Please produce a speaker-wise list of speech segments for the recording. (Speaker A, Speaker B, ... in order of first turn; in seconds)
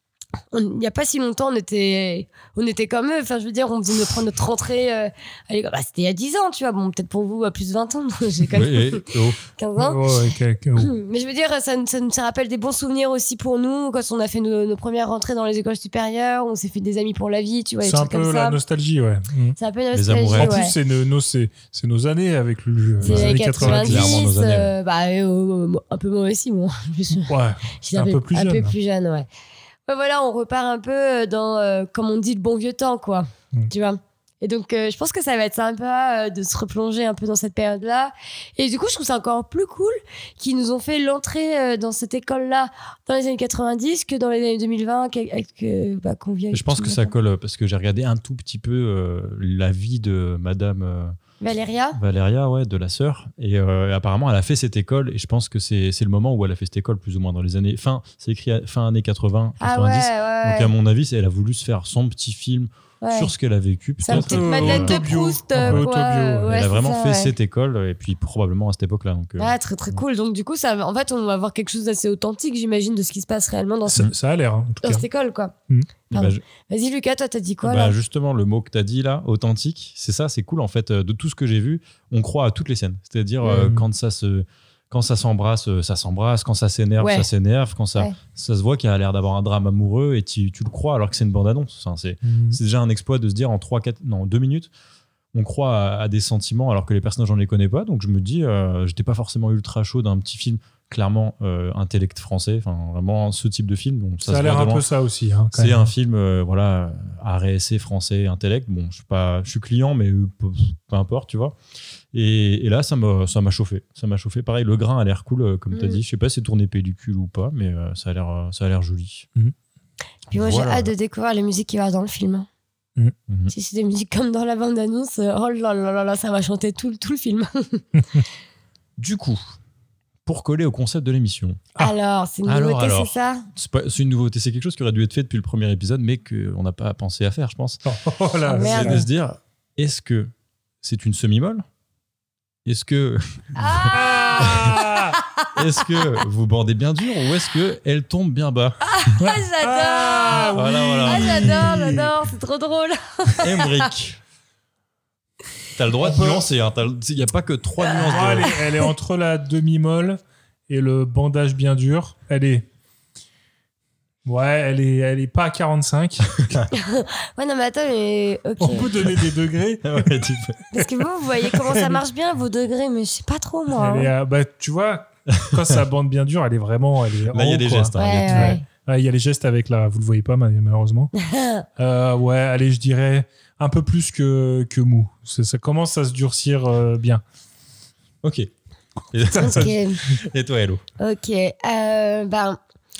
Speaker A: 0.5-10.1, 10.8-18.6, 19.6-20.7, 23.0-27.3, 27.8-29.3, 29.9-47.1, 51.4-52.0, 59.6-60.7, 63.0-63.3, 64.0-67.3, 69.4-74.0, 74.8-75.5, 76.1-77.9, 87.0-87.3, 115.7-116.0, 120.3-122.5, 123.5-127.8, 131.8-133.4, 138.5-139.1, 143.6-145.5, 148.8-153.9, 166.7-168.9, 170.7-174.1, 177.9-178.6, 181.2-181.7, 189.3-190.0, 191.0-192.6
Speaker B: 8.5-9.4, 19.9-20.6, 23.0-24.7, 46.5-51.1, 51.9-65.0, 65.6-65.9, 66.5-70.0, 76.1-76.4, 77.6-94.7, 95.3-104.8, 105.5-111.5, 112.1-119.3, 120.3-120.9, 123.3-123.5, 129.0-129.4, 130.2-131.7, 132.4-137.8, 138.6-140.3, 140.8-141.6, 142.6-144.8, 145.5-148.8, 150.5-151.8, 153.4-154.2, 155.8-158.6, 169.8-170.6, 175.3-175.6, 177.3-178.6, 188.2-188.5, 189.1-190.8
Speaker C: 9.8-10.9, 17.8-19.6, 20.4-24.2, 27.3-28.7, 64.1-66.5, 73.9-75.0, 83.4-83.8, 92.2-92.6, 104.2-105.9, 137.9-139.0, 143.9-145.2, 149.2-152.1, 156.0-156.4, 158.0-162.7, 164.2-166.6, 168.6-170.1, 171.5-172.0, 173.7-181.1, 181.8-187.2, 189.4-189.7